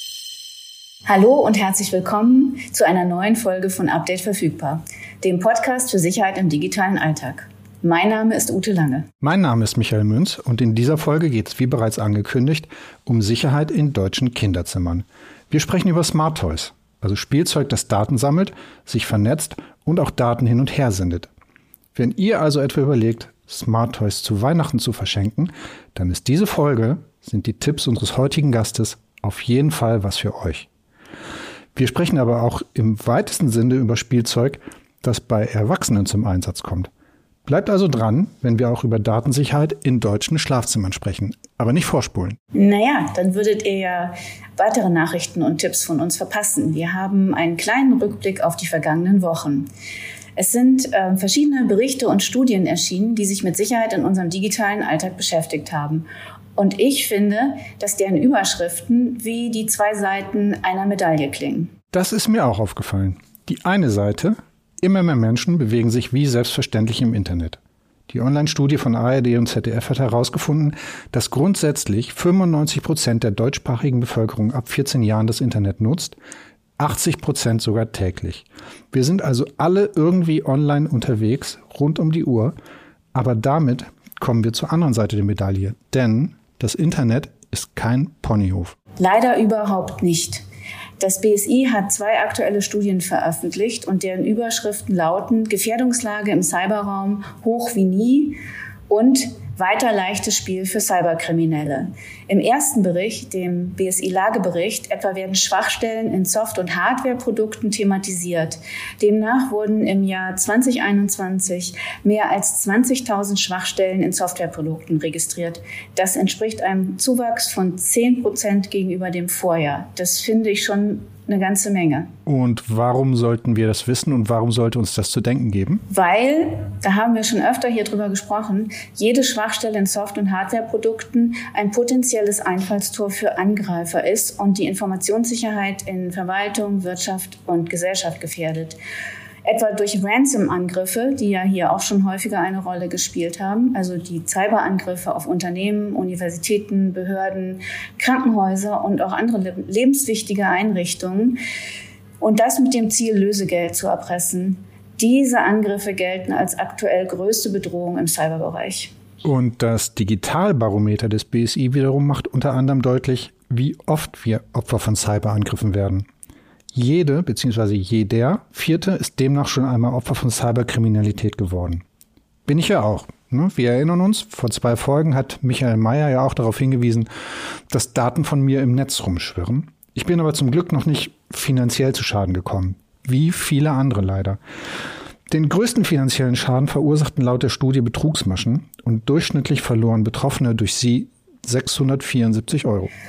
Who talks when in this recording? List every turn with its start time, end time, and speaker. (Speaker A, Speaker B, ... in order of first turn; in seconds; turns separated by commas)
Speaker A: 1.1-9.1, Speaker B: 9.2-21.3, Speaker B: 21.9-30.7, Speaker B: 31.8-36.9, Speaker B: 37.5-42.4, Speaker A: 42.5-49.7, Speaker A: 50.4-56.1, Speaker A: 56.6-61.7, Speaker B: 61.9-76.2, Speaker B: 76.8-82.5, Speaker B: 83.2-88.8, Speaker A: 89.0-90.4, Speaker A: 91.0-122.1, Speaker B: 122.3-125.8, Speaker A: 125.9-138.8, Speaker A: 139.4-151.4, Speaker A: 152.2-158.9, Speaker B: 159.2-166.1, Speaker B: 166.7-171.8, Speaker B: 172.5-177.1, Speaker B: 177.7-184.4, Speaker B: 185.3-192.9